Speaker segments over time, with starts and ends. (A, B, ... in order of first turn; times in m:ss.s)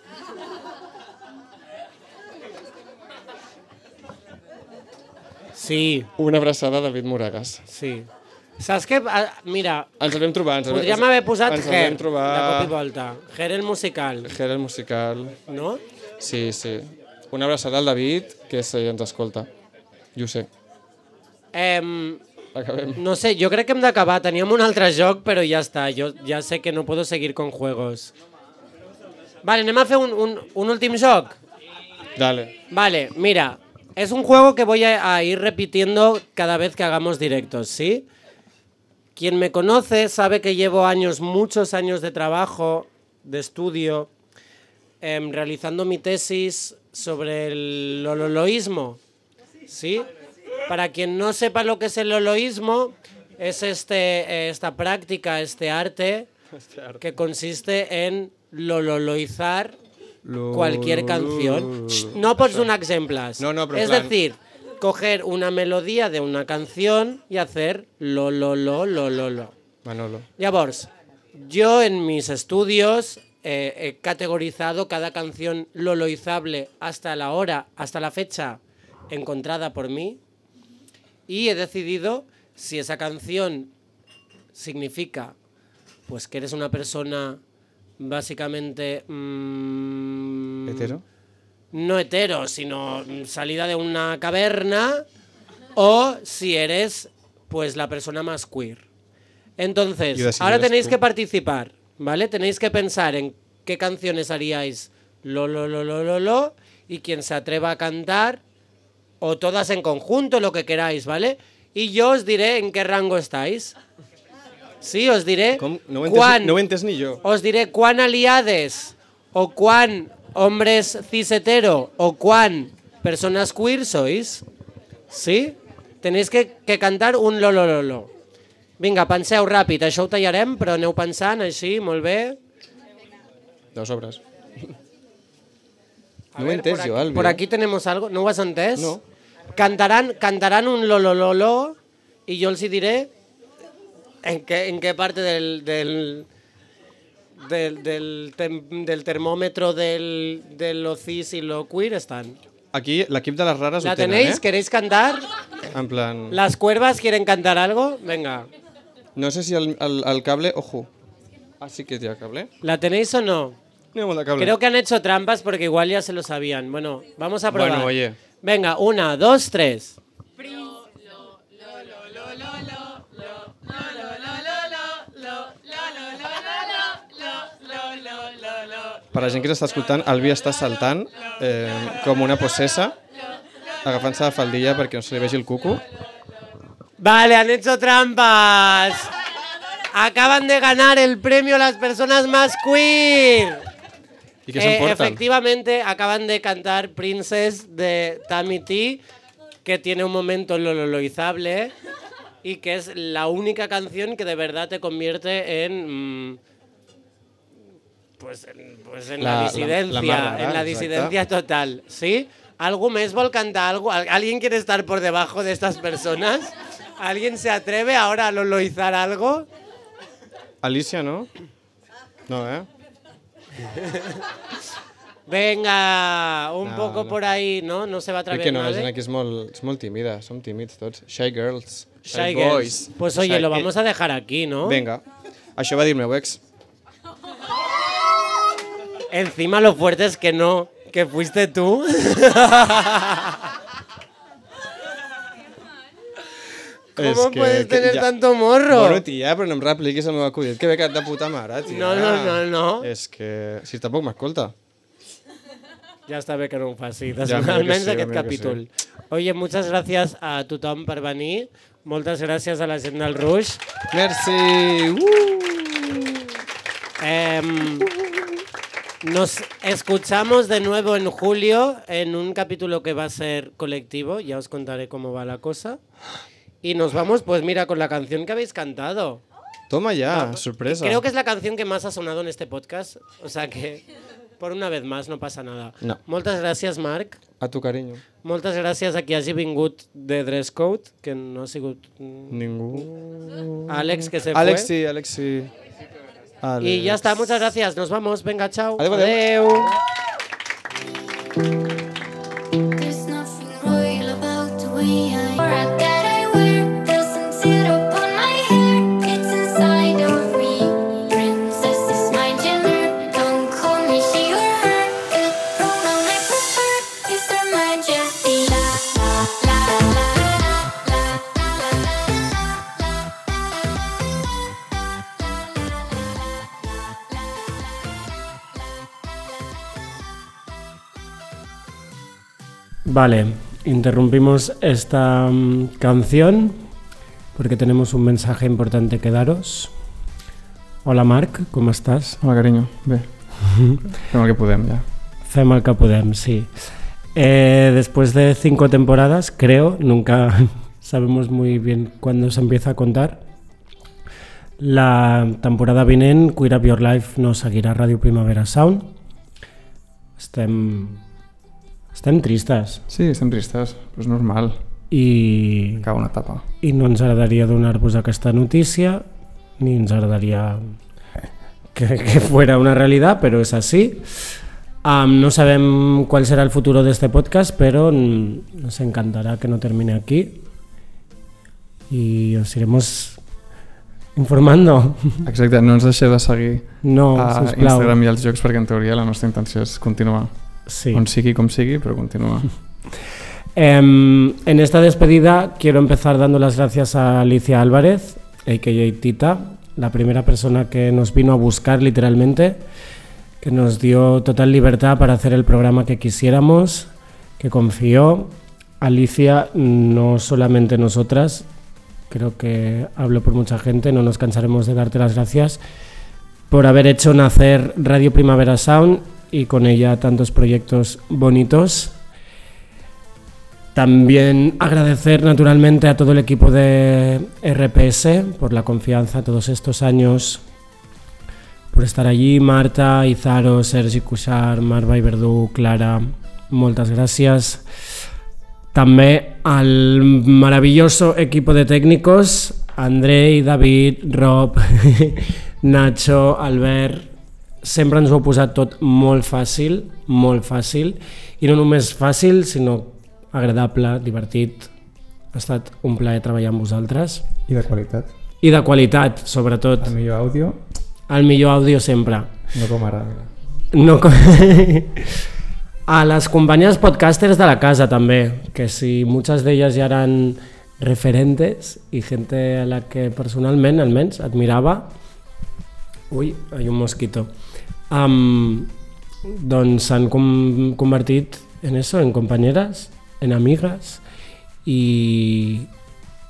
0:05.5-0:06.1 A
0:06.2-0:07.6 B
0:07.7-0:09.9 A
0:10.0-0:12.8 B
0:10.7-0:14.3 A
0:14.2-0:15.4 B
0:15.5-0:15.8 A
0:16.2-0:19.5 B
0:20.2-0:20.5 B
0:21.5-0:22.2 A
0:22.5-0:23.0 B
0:23.0-0:28.1 A
0:29.4-0:31.4 A
0:32.2-0:32.6 B
0:32.7-0:38.1 A
0:39.2-0:44.1 A
0:45.0-0:49.0 A
0:49.7-0:50.1 A
0:50.7-0:56.3 A
0:56.5-0:57.0 B
0:57.0-0:59.8 A
1:00.2-1:02.7 B
1:00.5-1:09.5 A
1:03.4-1:04.2 B
1:09.8-1:10.3 B
1:10.4-1:20.2 A
1:21.3-1:23.7 A
1:24.5-1:25.4 A
1:26.1-1:27.4 A
1:28.0-1:30.9 A
1:30.7-1:31.0 B
1:31.7-1:35.0 A
1:35.8-1:38.8 A
1:39.6-1:48.4 A
1:40.1-1:41.0 B
1:49.2-1:53.8 A
1:54.8-1:56.6 A
1:55.6-1:57.2 B
1:57.2-2:04.4 A
2:05.1-2:08.1 A
2:08.8-2:12.4 A
2:13.8-2:14.7 B
2:16.3-2:19.0 A
2:16.4-2:17.4 B
2:18.8-2:19.0 B
2:19.6-2:21.8 A
2:22.3-2:23.1 A
2:24.2-2:26.3 A
2:27.4-2:32.4 A
2:32.7-2:34.4 B
2:33.8-2:35.3 A
2:35.7-2:36.4 B
2:36.3-2:38.5 A
2:39.2-2:40.9 B
2:41.6-2:42.5 B
2:42.6-2:43.6 A
2:43.9-2:44.6 B
2:44.4-2:50.0 A
2:47.5-2:48.2 B
2:59.1-3:03.0 B
3:03.8-3:05.8 B
3:07.0-3:09.1 A
3:09.9-3:13.6 A
3:14.5-3:15.2 B
3:14.6-3:19.0 A
3:19.6-3:21.7 A
3:22.4-3:26.4 A
3:28.2-3:39.5 A
3:29.2-3:31.2 B
3:40.6-3:41.3 B
3:42.3-3:42.7 B
3:43.7-3:44.1 A
3:45.3-3:48.9 A
3:46.6-3:47.2 B
3:48.3-3:53.7 B
3:52.1-3:54.8 A
3:54.6-3:55.0 B
3:55.6-3:56.4 B
3:59.1-4:03.4 A
4:07.0-4:09.0 A
4:07.0-4:08.1 B
4:08.7-4:14.5 B
4:11.7-4:12.9 A
4:16.1-4:23.6 A
4:17.2-4:18.6 B
4:23.9-4:26.2 B
4:27.0-4:27.9 A
4:29.0-4:35.8 A
4:36.6-4:39.2 A
4:39.7-4:41.0 B
4:40.1-4:43.8 A
4:44.4-4:47.2 A
4:47.4-4:48.0 B
4:48.2-4:52.9 A
4:52.3-4:55.5 B
4:53.7-4:54.7 A
4:56.4-4:57.4 B
4:56.6-4:59.7 A
4:58.8-4:59.7 B
5:02.8-5:21.2 C
5:32.9-5:36.6 A
5:37.4-5:39.7 A
5:40.8-5:42.2 A
5:42.2-5:43.1 D
5:43.9-5:44.8 D
5:45.3-5:46.5 A
5:47.2-5:53.2 A
5:54.6-5:58.9 A
6:00.2-6:01.0 A
6:01.9-6:02.8 A
6:02.9-6:04.6 D
6:04.9-6:05.9 A
6:05.8-6:06.5 D
6:06.6-6:09.0 A
6:09.6-6:10.6 A
6:11.8-6:14.1 A
6:14.8-6:20.4 A
6:21.9-6:23.2 A
6:24.2-6:25.2 A
6:25.2-6:30.3 D
6:26.8-6:28.0 A
6:30.7-6:31.0 A
6:30.9-6:32.5 D
6:33.6-6:42.6 A
6:43.4-6:46.9 A
6:47.4-6:51.4 A
6:52.1-6:55.6 A
6:56.5-7:01.9 A
7:03.8-7:10.4 A
7:11.7-7:17.6 A
7:18.7-7:27.1 A
7:27.6-7:34.7 A
7:35.3-7:37.3 A
7:37.5-7:38.1 D
7:38.4-7:39.9 A
7:39.8-7:40.6 D
7:41.1-7:42.3 A
7:42.5-7:43.3 D
7:43.7-7:45.0 A
7:45.9-7:54.9 A
7:56.1-7:57.3 A
7:57.9-7:58.7 A
7:59.2-8:04.0 A
8:04.7-8:05.7 A